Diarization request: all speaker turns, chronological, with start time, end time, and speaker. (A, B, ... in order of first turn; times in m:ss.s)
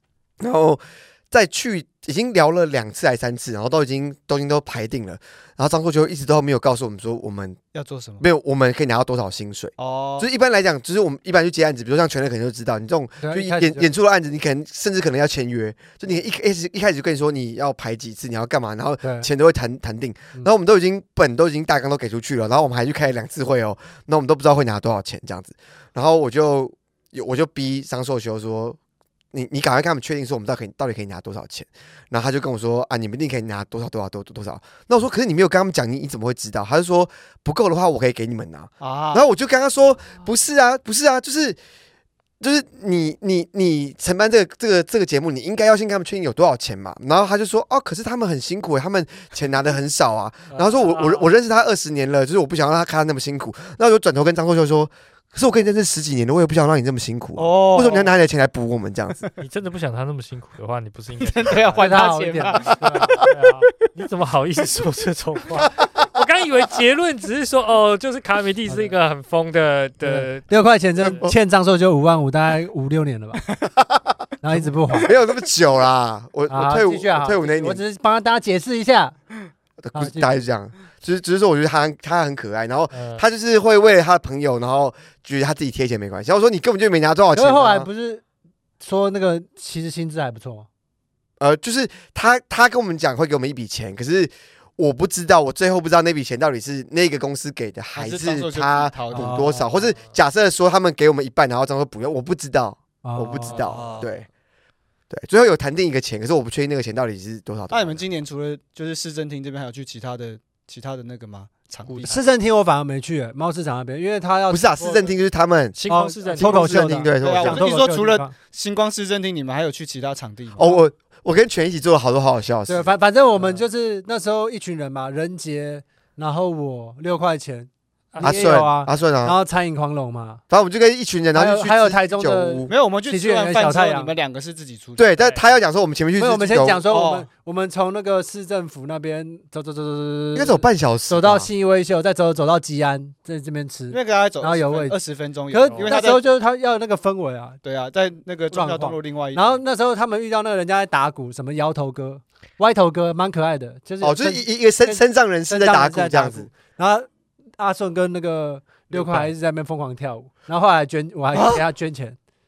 0:00.4-0:07.6 A
0:07.7-0:08.2 B
0:08.2-0:28.8 A
0:09.8-0:10.3 B
0:13.2-0:13.9 C
0:19.0-0:19.3 C
0:29.3-0:41.6 A
0:38.8-0:39.2 B
0:42.4-0:59.2 A
0:50.5-0:51.3 D
0:57.4-0:58.1 B
0:59.4-1:01.9 D
1:01.2-1:02.9 B
1:01.8-1:03.0 C
1:02.6-1:10.4 D
1:08.7-1:08.9 C
1:10.0-1:13.4 C
1:11.0-1:11.3 A
1:14.4-1:15.1 C
1:15.0-1:17.8 A
1:16.5-1:19.1 C
1:19.8-1:27.9 A
1:19.9-1:20.3 C
1:22.9-1:23.2 D
1:27.3-1:28.2 C
1:28.8-1:30.7 C
1:31.4-1:44.3 A
1:37.9-1:39.5 B
1:39.1-1:39.6 C
1:43.0-1:43.6 C
1:43.5-1:44.1 B
1:45.1-1:48.0 A
1:47.7-1:52.2 B
1:51.9-1:52.2 D
1:52.0-1:55.1 C
1:54.5-1:55.8 A
1:55.7-1:56.9 D
1:55.9-1:58.3 C
1:56.3-1:57.7 A
1:57.2-2:00.8 B
2:00.6-2:02.9 A
2:02.7-2:10.4 C
2:08.1-2:08.5 D
2:08.2-2:09.4 A
2:10.5-2:12.7 A
2:11.3-2:14.1 C
2:12.7-2:15.1 B
2:15.0-2:16.8 A
2:16.2-2:25.0 C
2:16.8-2:17.3 B
2:20.3-2:21.5 A
2:23.9-2:26.2 B
2:25.5-2:27.6 C
2:27.6-2:29.6 B
2:28.5-2:42.2 C
2:34.0-2:36.5 A
2:41.3-2:41.6 A